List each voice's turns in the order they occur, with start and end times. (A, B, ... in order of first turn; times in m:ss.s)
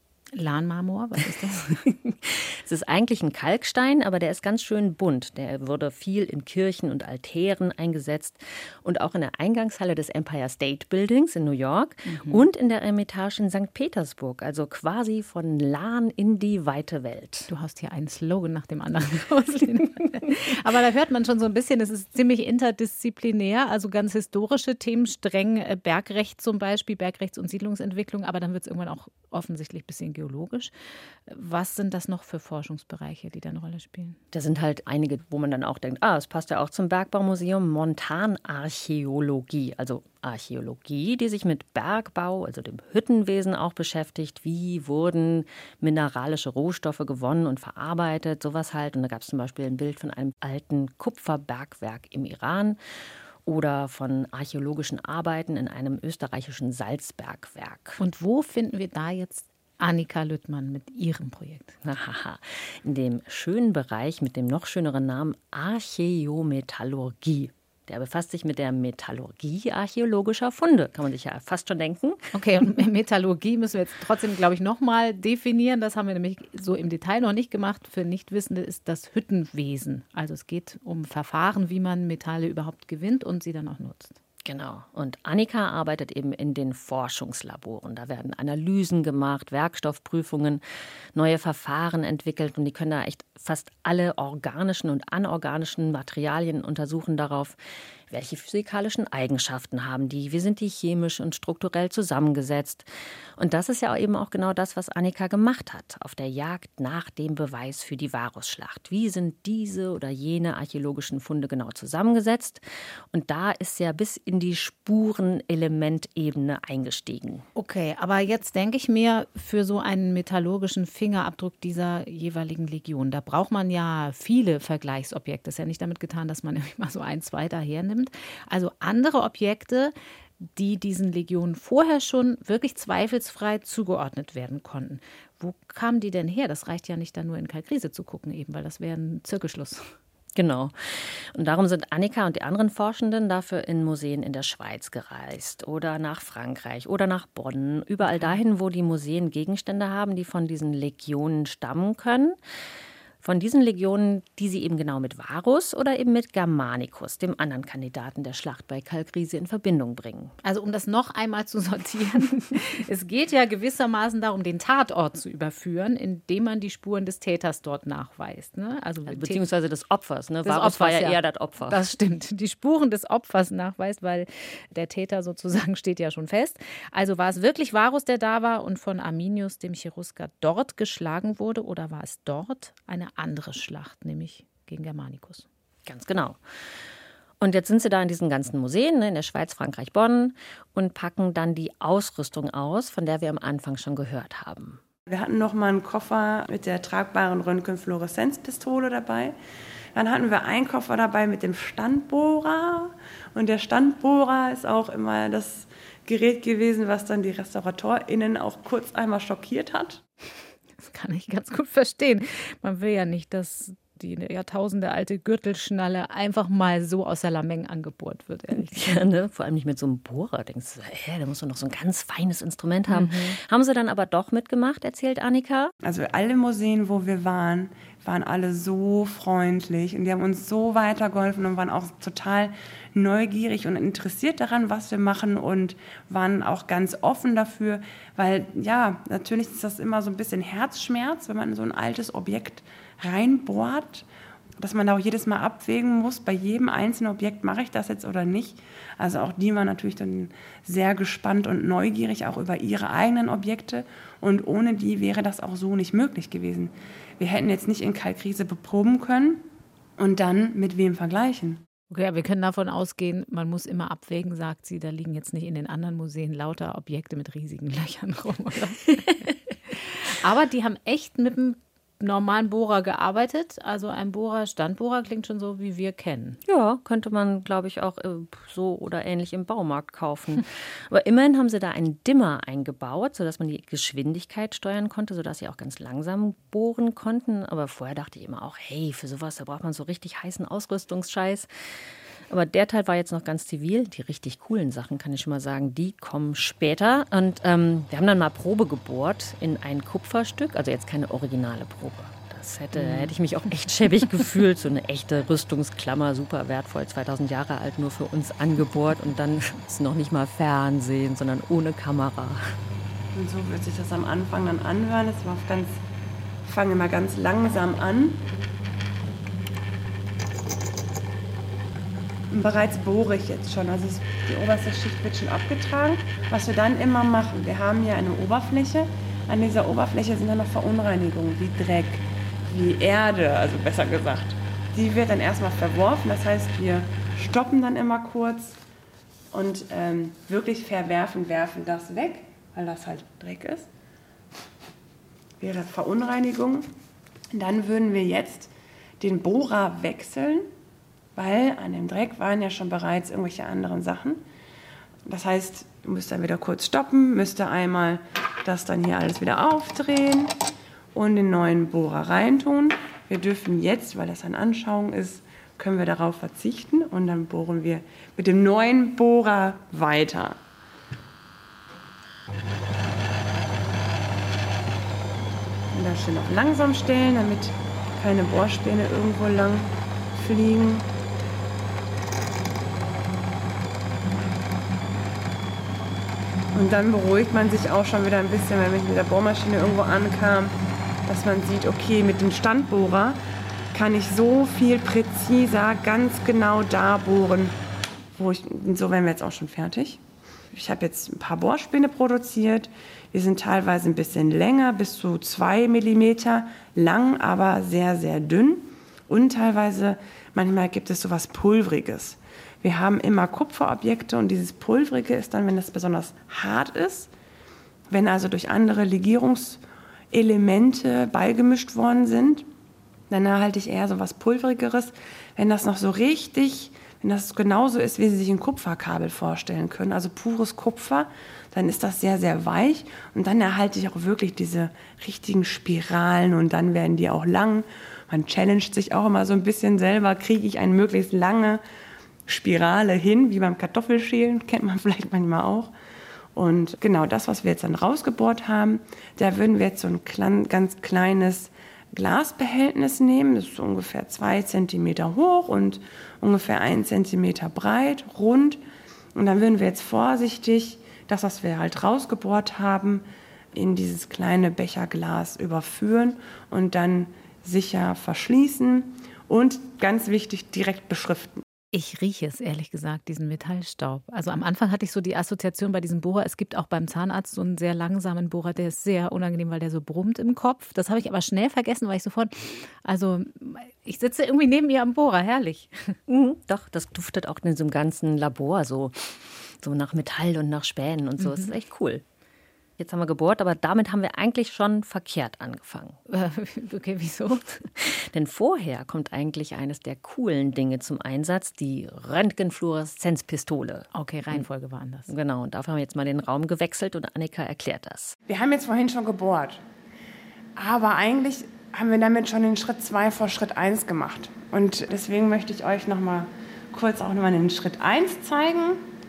0:00.3-0:01.8 A
0:01.8-0:17.5 B
0:12.1-0:12.4 A
0:17.5-0:30.7 A
0:31.3-0:34.2 A
0:34.3-0:52.8 B
0:53.4-0:58.0 B
0:58.0-1:01.8 A
1:01.8-1:12.2 B
1:12.3-1:24.2 A
1:24.4-1:30.6 B
1:31.1-1:37.6 B
1:38.1-1:57.4 B
1:57.6-2:09.9 A
2:10.6-2:19.9 A
2:20.4-2:32.4 B
2:28.1-2:28.3 A
2:33.2-2:40.3 B
2:40.4-2:49.4 A
2:49.1-2:51.8 B
2:50.4-3:05.4 A
3:05.9-3:06.4 B
3:07.4-3:14.8 B
3:15.1-3:19.4 C
3:20.0-3:30.0 C
3:30.8-3:39.1 A
3:38.5-3:45.7 B
3:42.9-3:43.4 A
3:45.8-4:04.1 C
4:04.6-4:19.4 C
4:20.0-4:21.6 C
4:21.9-4:36.4 A
4:36.5-4:51.5 B
4:52.3-5:12.6 B
5:02.8-5:03.1 A
5:13.2-5:15.8 C
5:16.4-5:18.2 C
5:22.3-5:38.6 C
5:39.3-5:43.7 C
5:45.4-5:46.7 C
5:47.3-5:50.5 C
5:51.2-5:54.2 C
5:55.1-6:00.3 C
6:00.9-6:10.4 C
6:15.7-6:20.9 C
6:26.5-6:30.5 C
6:31.1-6:33.2 C
6:33.7-6:37.6 C
6:38.2-6:40.0 C
6:40.5-6:57.1 C
6:57.9-7:02.5 C
7:03.1-7:21.6 C
7:22.3-7:25.7 C
7:26.4-7:38.6 C
7:39.2-7:51.4 C
7:51.7-8:06.0 A
8:06.1-8:12.0 B
8:12.8-8:16.0 B
8:16.1-8:17.7 A
8:17.8-8:24.4 B
8:23.9-8:25.1 A
8:25.1-8:28.2 B
8:28.3-8:29.6 C
8:30.6-8:38.8 C